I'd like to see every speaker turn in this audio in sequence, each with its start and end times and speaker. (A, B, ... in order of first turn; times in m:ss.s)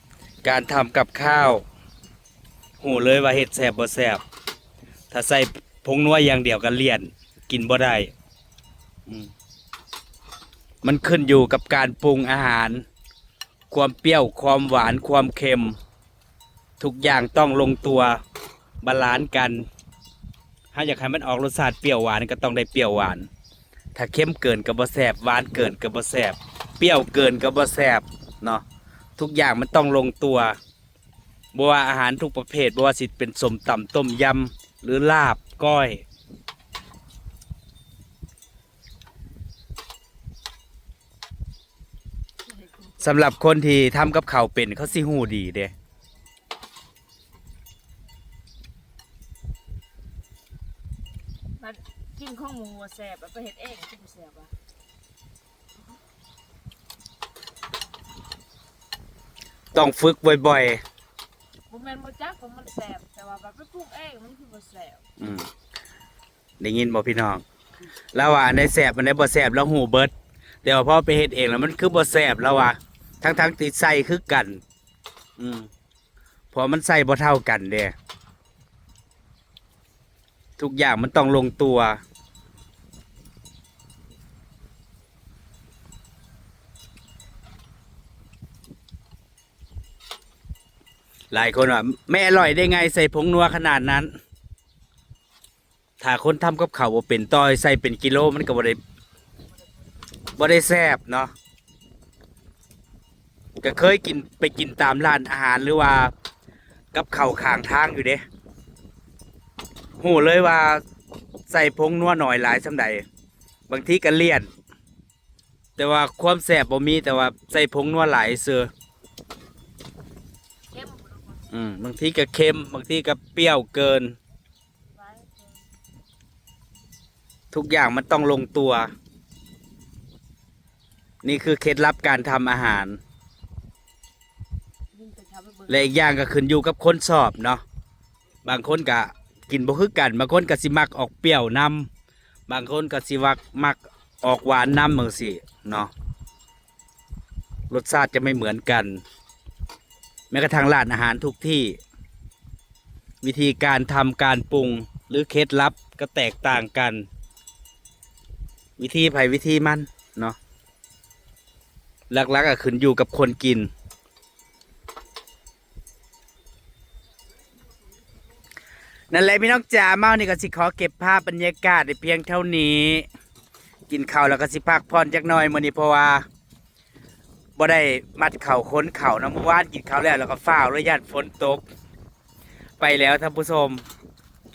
0:00.4-0:01.6 A
0:02.8-0:04.2 A
0:05.1-0:08.1 A
0:10.8-0:12.8 A
0:13.7-0:15.8 A
0:16.8-0:18.2 A
0:18.8-0:19.6 A
0:20.7-0:23.3 A
0:23.9-0:28.6 A
0:29.2-0:30.6 A
0:31.5-0:36.0 A
0:42.6-0:43.0 B
0:43.0-0:45.7 A
0:51.6-0:54.5 B
0:59.7-1:00.8 A
1:01.7-1:05.0 B
1:05.2-1:05.5 A
1:06.6-1:07.4 A
1:08.1-1:10.1 A
1:10.6-1:14.6 A
1:15.4-1:15.7 A
1:16.5-1:17.9 A
1:20.6-1:22.0 A
1:31.3-1:34.1 A
1:36.0-1:38.8 A
1:40.4-1:41.3 A
1:43.6-1:46.1 A
1:46.9-1:48.2 A
1:50.0-1:50.8 A
1:51.5-1:53.0 A
1:53.7-1:54.5 A
1:55.8-1:58.7 A
2:00.7-2:01.4 B
2:01.5-2:04.2 A
2:04.9-2:05.6 B
2:07.5-2:08.9 A
2:11.2-2:13.0 A
2:14.9-2:15.8 B
2:15.7-2:17.6 A
2:18.4-2:21.9 A
2:22.5-2:25.9 A
2:27.7-2:29.0 A
2:30.3-2:31.8 A
2:33.2-2:37.0 A
2:38.8-2:40.4 A
2:42.1-2:43.7 A
2:49.1-2:53.0 A
2:53.9-2:56.2 A
2:57.6-3:01.6 A
3:02.8-3:03.8 A